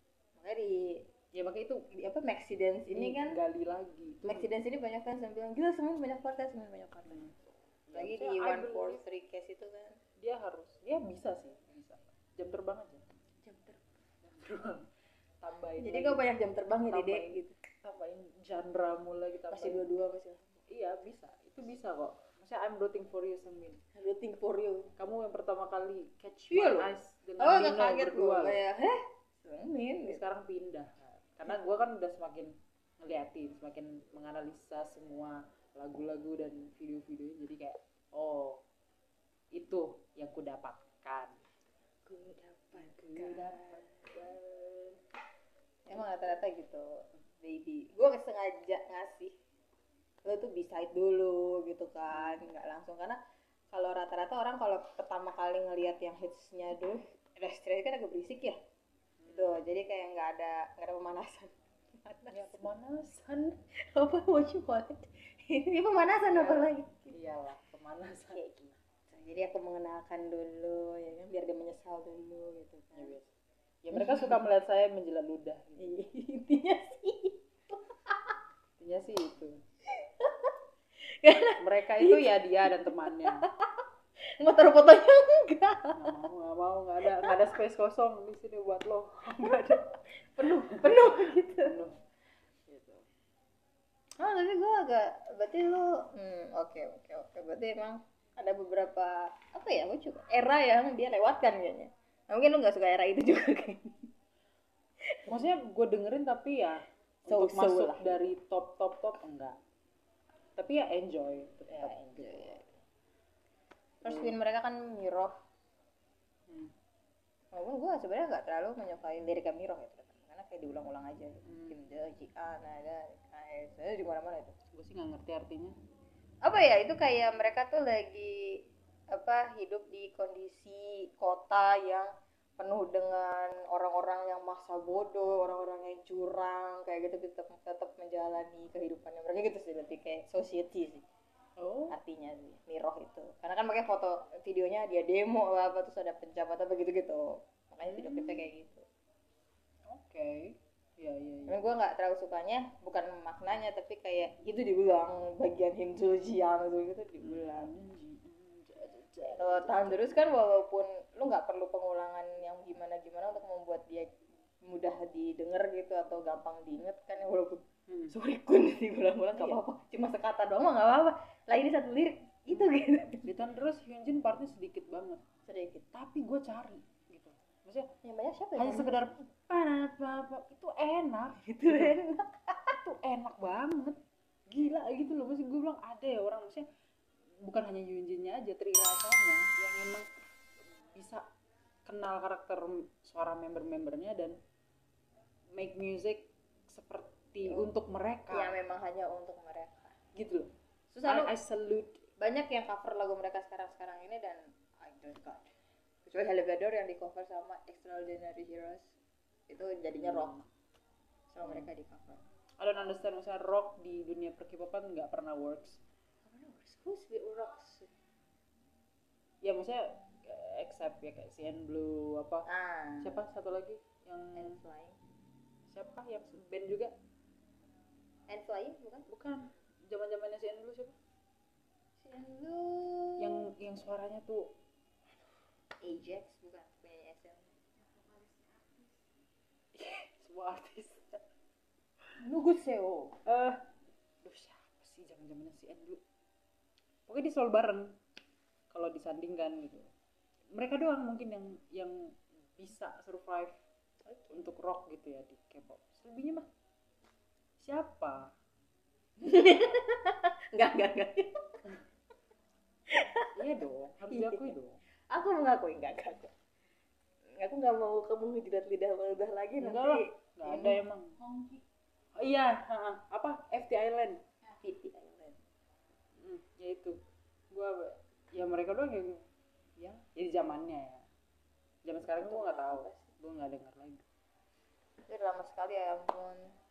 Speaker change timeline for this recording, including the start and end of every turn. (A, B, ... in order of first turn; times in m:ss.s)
0:00.4-0:01.1 A
0:01.3-0:01.8 B
0:01.9-0:03.4 A
0:02.9-0:04.5 B
0:04.2-0:07.3 A
0:07.1-0:07.4 B
0:07.9-0:09.0 B
0:07.9-0:10.0 A
0:10.2-0:13.0 B
0:13.4-0:13.8 A
0:14.2-0:14.8 B
0:15.4-0:16.2 B
0:15.8-0:17.6 A
0:16.9-0:19.8 B
0:19.5-0:20.6 A
0:20.7-0:23.8 B
0:23.9-0:24.9 A
0:25.0-0:28.6 B
0:26.5-0:30.2 A
0:30.1-0:38.6 B
0:39.5-0:41.4 B
0:42.1-0:44.7 A
0:42.7-0:44.3 B
0:45.9-0:49.3 A
0:50.2-0:53.2 A
0:52.1-0:52.4 B
0:53.7-0:58.6 A
0:59.2-0:59.6 B
0:59.3-1:02.6 A
1:02.3-1:03.6 B
1:03.9-1:07.1 A
1:06.3-1:08.8 B
1:09.1-1:13.1 A
1:12.9-1:13.3 B
1:13.8-1:15.9 B
1:13.9-1:14.4 A
1:15.8-1:18.3 A
1:18.8-1:19.6 B
1:19.9-1:20.5 A
1:21.2-1:26.1 A
1:21.6-1:23.5 B
1:26.0-1:32.0 B
1:27.1-1:27.4 A
1:30.3-1:31.7 A
1:32.7-1:33.0 B
1:34.2-1:44.1 A
1:45.0-1:45.3 A
1:45.2-1:49.6 B
1:47.3-1:48.2 A
1:50.6-1:52.6 B
1:51.7-1:52.6 A
1:54.0-1:55.3 A
1:54.0-1:54.4 B
1:56.5-1:56.7 B
1:57.5-2:04.6 A
2:01.4-2:01.8 B
2:04.7-2:05.8 B
2:06.4-2:21.0 A
2:21.6-2:22.0 B
2:21.9-2:28.8 A
2:27.8-2:28.5 B
2:29.9-2:31.7 B
2:31.5-2:37.7 A
2:37.2-2:40.2 B
2:39.3-2:53.3 A
2:47.9-2:48.1 B
2:53.2-2:55.2 B
2:55.4-2:55.9 A
2:55.9-2:57.9 B
2:58.0-2:59.2 A
2:58.6-3:02.0 B
3:01.4-3:02.7 A
3:02.7-3:04.0 B
3:04.5-3:06.7 B
3:07.4-3:10.0 B
3:10.9-3:11.2 B
3:11.8-3:14.4 B
3:15.5-3:18.6 B
3:18.3-3:20.0 A
3:20.1-3:20.5 B
3:20.9-3:21.3 A
3:21.0-3:22.0 B
3:22.2-3:25.5 A
3:26.0-3:28.9 A
3:29.5-3:30.4 A
3:30.0-3:30.4 B
3:31.3-3:32.2 A
3:32.6-3:35.8 B
3:36.2-3:37.9 A
3:39.4-3:42.4 B
3:42.5-3:43.2 A
3:43.0-3:44.6 B
3:44.4-3:45.0 A
3:45.7-3:46.9 B
3:48.3-3:49.1 A
3:49.1-3:50.9 B
3:52.0-3:53.4 A
3:53.2-3:54.5 B
3:55.8-3:58.9 A
3:59.7-4:01.2 B
4:02.2-4:03.2 A
4:03.2-4:03.6 B
4:04.2-4:06.0 B
4:07.1-4:08.0 B
4:08.7-4:09.9 B
4:10.5-4:13.6 B
4:14.1-4:14.4 A
4:14.3-4:16.5 B
4:17.6-4:18.3 B
4:19.2-4:21.4 A
4:22.9-4:23.3 A
4:23.3-4:24.8 B
4:24.1-4:24.5 A
4:25.1-4:26.3 A
4:27.4-4:31.6 A
4:29.6-4:31.2 B
4:32.2-4:34.2 B
4:34.5-4:35.4 A
4:36.2-4:37.0 B
4:37.5-4:39.2 B
4:39.8-4:41.0 B
4:41.8-4:44.0 B
4:42.1-4:43.1 A
4:45.0-4:46.5 A